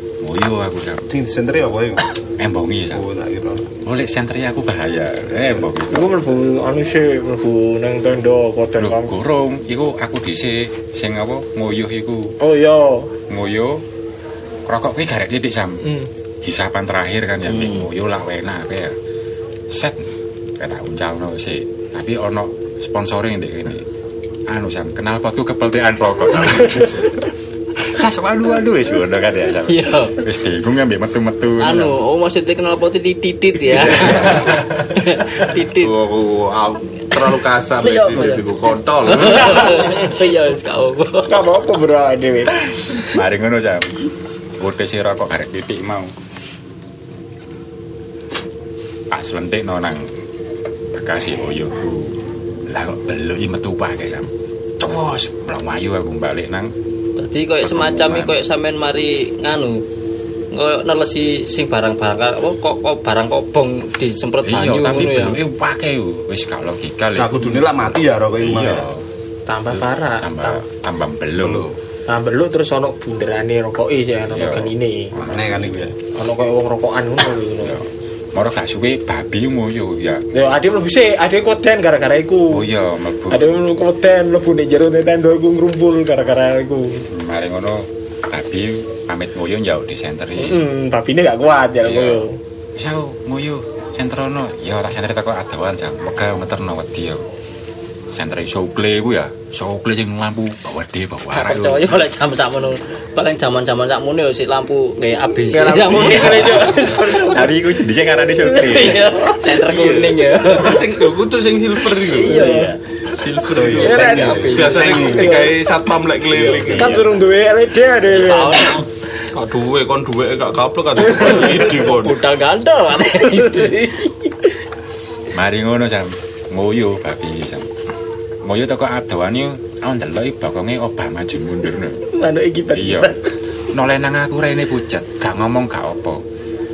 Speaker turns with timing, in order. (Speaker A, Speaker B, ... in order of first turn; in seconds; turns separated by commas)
Speaker A: 0.2-1.1, Speaker B: 1.1-2.1, Speaker A: 2.4-3.0, Speaker B: 2.9-3.7, Speaker A: 3.8-6.2, Speaker C: 5.9-9.2, Speaker A: 8.8-12.4, Speaker C: 12.4-13.1, Speaker A: 13.3-13.8, Speaker A: 14.7-15.8, Speaker A: 16.4-19.0, Speaker D: 17.6-17.8, Speaker A: 19.7-23.9, Speaker A: 24.5-32.0, Speaker D: 29.7-30.2, Speaker D: 31.6-35.9, Speaker A: 33.9-34.5, Speaker E: 35.7-39.9, Speaker D: 37.8-38.5, Speaker D: 39.1-41.3, Speaker C: 41.3-43.1, Speaker A: 43.0-44.0, Speaker A: 44.6-46.1, Speaker A: 49.1-50.1, Speaker A: 50.9-56.7, Speaker D: 57.2-59.9, Speaker A: 57.6-58.4, Speaker D: 60.5-65.4, Speaker A: 64.4-67.7, Speaker B: 67.2-68.9, Speaker A: 68.4-69.1, Speaker C: 69.5-70.6, Speaker A: 69.7-71.8, Speaker B: 71.4-71.7, Speaker C: 72.1-75.2, Speaker A: 74.3-75.9, Speaker B: 75.2-75.9, Speaker C: 76.1-77.8, Speaker A: 77.6-80.2, Speaker C: 80.3-82.6, Speaker A: 82.5-83.6, Speaker C: 83.3-87.1, Speaker A: 87.1-90.6, Speaker C: 90.4-92.4, Speaker A: 91.8-97.2, Speaker A: 98.1-102.0, Speaker D: 101.3-106.9, Speaker C: 105.5-107.6, Speaker A: 105.9-109.1, Speaker C: 108.4-109.6, Speaker D: 108.9-110.9, Speaker E: 109.6-117.1, Speaker C: 112.0-112.8, Speaker D: 112.2-112.8, Speaker B: 113.5-115.5, Speaker C: 113.8-115.6, Speaker D: 113.8-115.2, Speaker B: 116.3-117.0, Speaker C: 116.7-118.9, Speaker D: 118.1-118.9, Speaker E: 119.3-122.2, Speaker D: 121.1-124.0, Speaker C: 123.2-124.5, Speaker A: 125.3-127.7, Speaker A: 128.4-132.0, Speaker C: 132.1-133.3, Speaker A: 132.7-133.2, Speaker A: 133.7-136.2